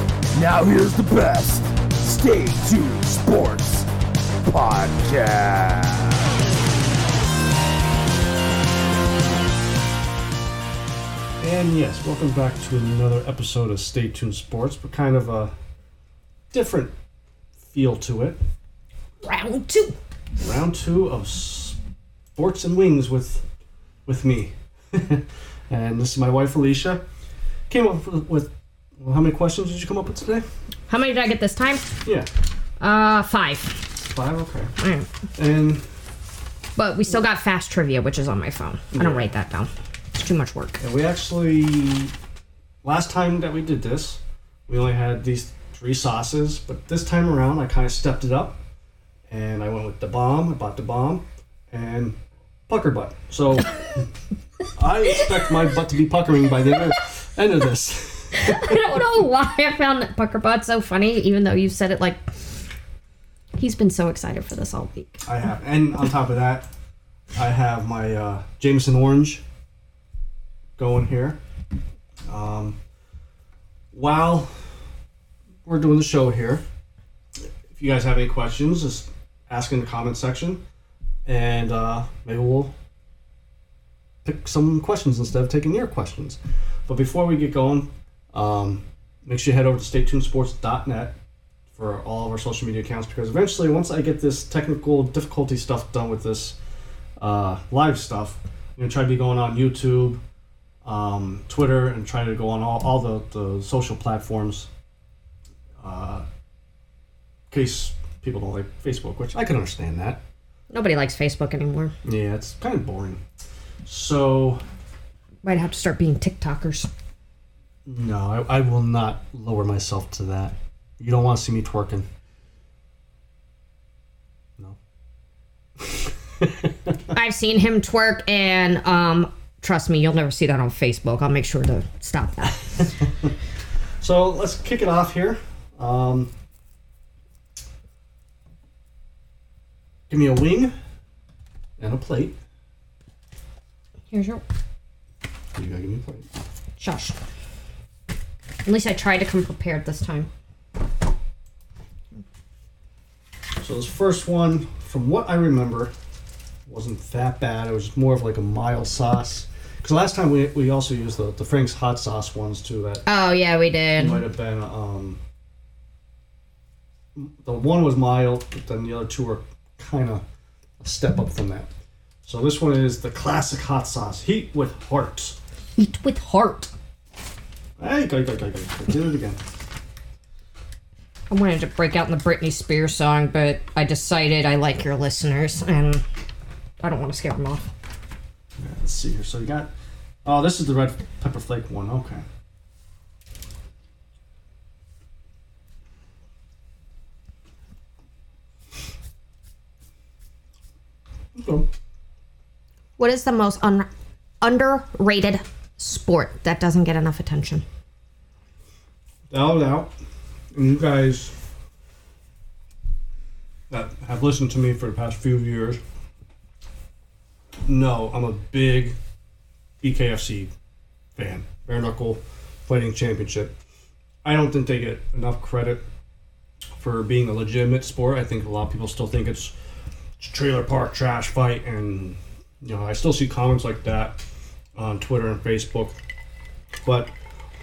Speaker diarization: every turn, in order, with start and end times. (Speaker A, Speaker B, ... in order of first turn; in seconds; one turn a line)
Speaker A: 0.3-3.9
Speaker A: 4.4-6.3
Speaker B: 11.4-15.5
Speaker B: 16.5-16.9
Speaker B: 17.6-18.4
Speaker C: 19.2-19.9
Speaker B: 20.4-21.8
Speaker B: 22.4-23.4
Speaker B: 24.1-27.0
Speaker B: 27.7-30.4
Speaker C: 30.9-31.9
Speaker C: 32.8-33.9
Speaker B: 34.0-34.7
Speaker C: 34.8-35.1
Speaker B: 35.4-35.8
Speaker C: 36.8-40.8
Speaker B: 38.9-39.3
Speaker B: 40.8-42.1
Speaker B: 42.8-48.6
Speaker B: 49.3-52.2
Speaker B: 52.7-53.8
Speaker B: 54.7-58.8
Speaker C: 58.3-62.2
Speaker C: 63.5-65.2
Speaker B: 65.2-66.7
Speaker B: 67.3-69.4
Speaker B: 70.8-71.4
Speaker B: 72.3-72.8
Speaker B: 73.9-74.5
Speaker B: 75.6-76.6
Speaker B: 77.7-80.6
Speaker B: 81.2-82.7
Speaker B: 84.2-91.2
Speaker B: 91.7-96.6
Speaker B: 97.2-100.2
Speaker B: 100.8-104.7
Speaker B: 105.8-106.2
Speaker B: 107.5-110.2
Speaker C: 110.7-111.9
Speaker B: 112.0-113.2
Speaker B: 113.8-114.6
Speaker C: 115.4-116.9
Speaker B: 117.8-122.0
Speaker B: 125.8-126.9
Speaker C: 127.1-133.1
Speaker B: 134.0-136.3
Speaker B: 140.1-140.7
Speaker B: 141.8-142.3
Speaker C: 144.1-144.4
Speaker B: 145.5-146.3
Speaker C: 146.8-147.2
Speaker C: 148.7-150.3
Speaker B: 153.6-155.9
Speaker B: 156.7-163.0
Speaker C: 163.1-164.2
Speaker B: 164.0-165.2
Speaker B: 167.1-170.2
Speaker B: 170.8-171.7
Speaker B: 172.2-175.4
Speaker C: 175.8-176.7
Speaker B: 177.8-179.4
Speaker C: 181.3-186.0
Speaker C: 186.8-187.7
Speaker B: 188.6-189.7
Speaker B: 190.2-192.2
Speaker B: 201.3-201.7
Speaker C: 203.0-203.9
Speaker C: 204.4-207.6
Speaker B: 209.3-209.9
Speaker B: 210.5-211.3
Speaker B: 213.7-215.8
Speaker B: 217.6-219.0
Speaker B: 219.8-220.5
Speaker B: 221.2-223.5
Speaker B: 224.2-225.8
Speaker B: 226.8-229.5
Speaker B: 230.2-234.2
Speaker B: 234.8-235.9
Speaker B: 236.8-237.1